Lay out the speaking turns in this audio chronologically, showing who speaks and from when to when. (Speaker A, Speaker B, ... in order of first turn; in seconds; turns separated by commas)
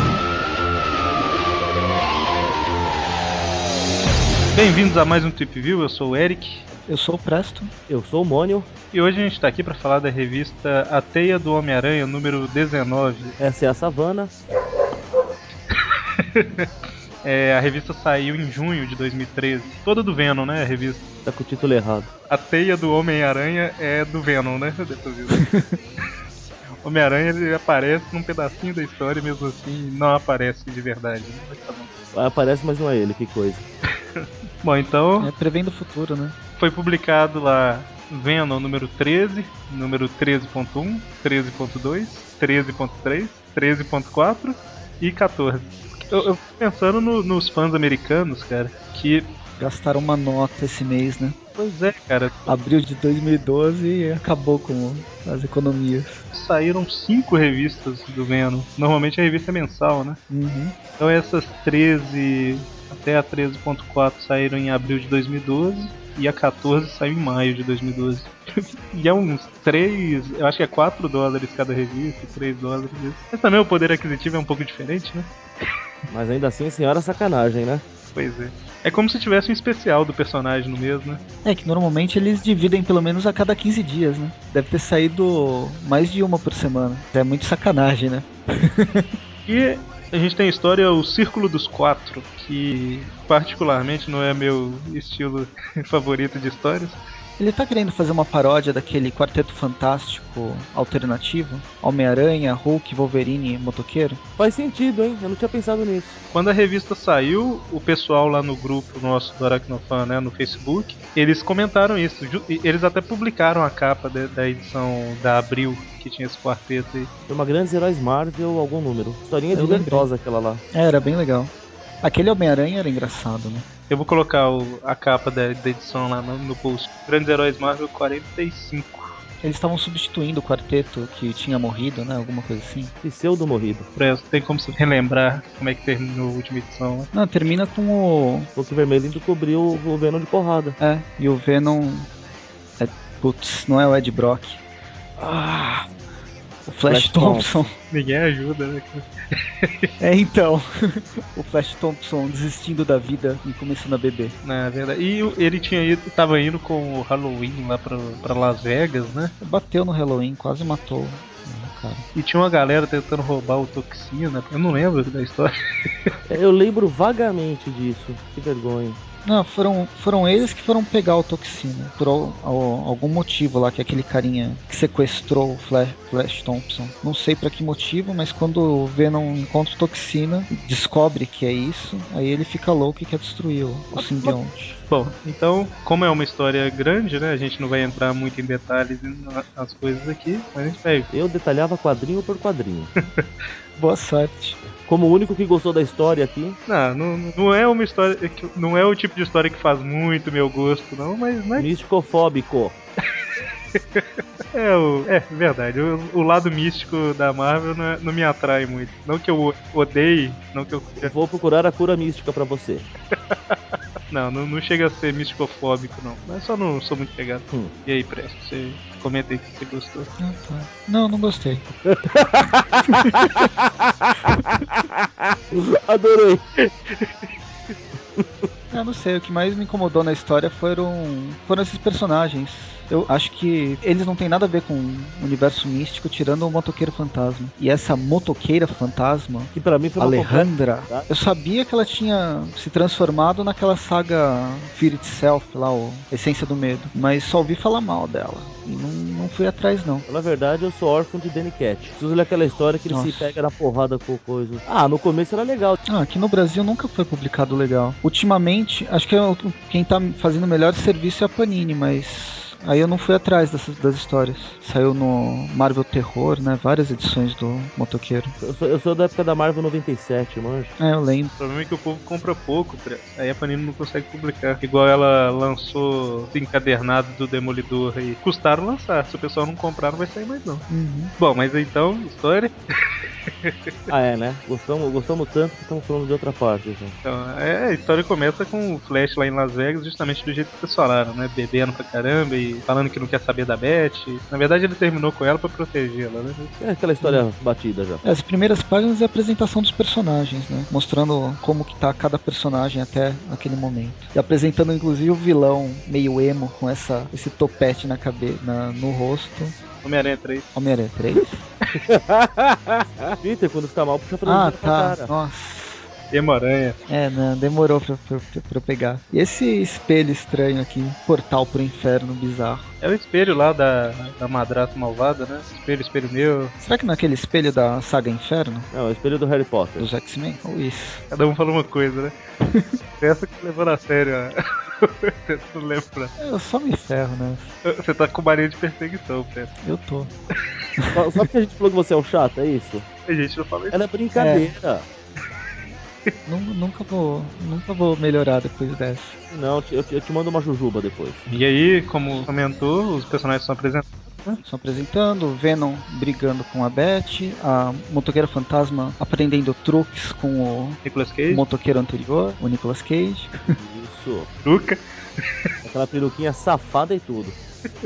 Speaker A: 4.5-6.7, Speaker B: 6.9-7.7, Speaker C: 7.9-8.7, Speaker A: 8.9-13.4, Speaker C: 13.4-14.3, Speaker A: 15.7-16.7, Speaker A: 17.2-21.1, Speaker C: 21.3-22.1, Speaker A: 22.3-25.6, Speaker B: 25.4-25.8, Speaker A: 26.8-31.9, Speaker C: 32.1-33.7, Speaker A: 34.2-35.3, Speaker B: 35.2-36.4, Speaker A: 36.6-49.3, Speaker B: 49.6-51.4, Speaker A: 51.6-52.5, Speaker B: 52.5-56.2, Speaker A: 56.3-60.2, Speaker B: 60.3-60.8, Speaker A: 61.0-75.3, Speaker C: 76.1-77.8, Speaker A: 78.2-81.2, Speaker B: 81.5-89.1, Speaker A: 89.5-97.0, Speaker B: 97.4-104.2, Speaker C: 104.4-106.2, Speaker A: 106.3-117.1, Speaker C: 117.3-120.6, Speaker B: 119.5-120.1, Speaker B: 120.7-123.7, Speaker A: 123.9-129.1, Speaker B: 129.4-132.9, Speaker C: 133.0-133.9, Speaker A: 134.0-137.1, Speaker B: 137.1-138.5, Speaker C: 138.6-140.8, Speaker B: 140.8-142.1, Speaker B: 142.8-144.6, Speaker B: 145.2-145.9, Speaker B: 146.7-147.7, Speaker C: 146.9-147.5, Speaker A: 147.9-149.1, Speaker A: 149.6-149.9, Speaker B: 150.0-154.3, Speaker A: 154.4-159.3, Speaker B: 159.4-162.0, Speaker A: 162.2-165.5, Speaker C: 166.3-169.0, Speaker B: 169.2-184.8, Speaker C: 183.9-184.4, Speaker A: 184.9-191.1, Speaker C: 191.1-192.9, Speaker B: 193.8-194.6, Speaker C: 194.8-196.6, Speaker A: 196.7-201.7, Speaker C: 201.6-202.8, Speaker A: 203.8-211.1, Speaker C: 211.0-212.9, Speaker A: 214.1-220.1, Speaker B: 220.2-221.6, Speaker C: 221.8-226.7, Speaker B: 228.7-250.1, Speaker C: 239.5-241.1, Speaker C: 250.1-255.8, Speaker B: 252.9-253.3, Speaker B: 255.9-268.3, Speaker C: 268.4-270.8, Speaker B: 270.8-271.3, Speaker A: 271.4-280.7, Speaker B: 280.7-281.1, Speaker A: 281.2-283.5, Speaker C: 283.9-287.0, Speaker A: 287.1-296.6, Speaker C: 296.6-298.0, Speaker B: 298.0-309.6, Speaker A: 309.8-310.5, Speaker B: 310.6-311.4, Speaker C: 311.9-315.1, Speaker B: 314.2-315.9, Speaker A: 316.1-316.8, Speaker B: 316.9-322.7, Speaker A: 322.8-326.5, Speaker B: 326.6-328.7, Speaker C: 328.7-329.9, Speaker B: 329.8-331.0, Speaker A: 331.1-332.1, Speaker B: 332.4-332.8, Speaker A: 333.0-336.1, Speaker B: 336.2-337.5, Speaker A: 337.6-339.5, Speaker B: 339.6-340.1, Speaker C: 340.9-342.9, Speaker A: 343.1-343.8, Speaker C: 343.7-344.9, Speaker B: 344.1-344.5, Speaker B: 346.3-349.2, Speaker C: 349.3-351.3, Speaker A: 351.3-354.4, Speaker B: 354.4-363.5, Speaker A: 360.9-361.4, Speaker C: 363.5-364.3, Speaker A: 364.4-364.8, Speaker C: 365.6-367.4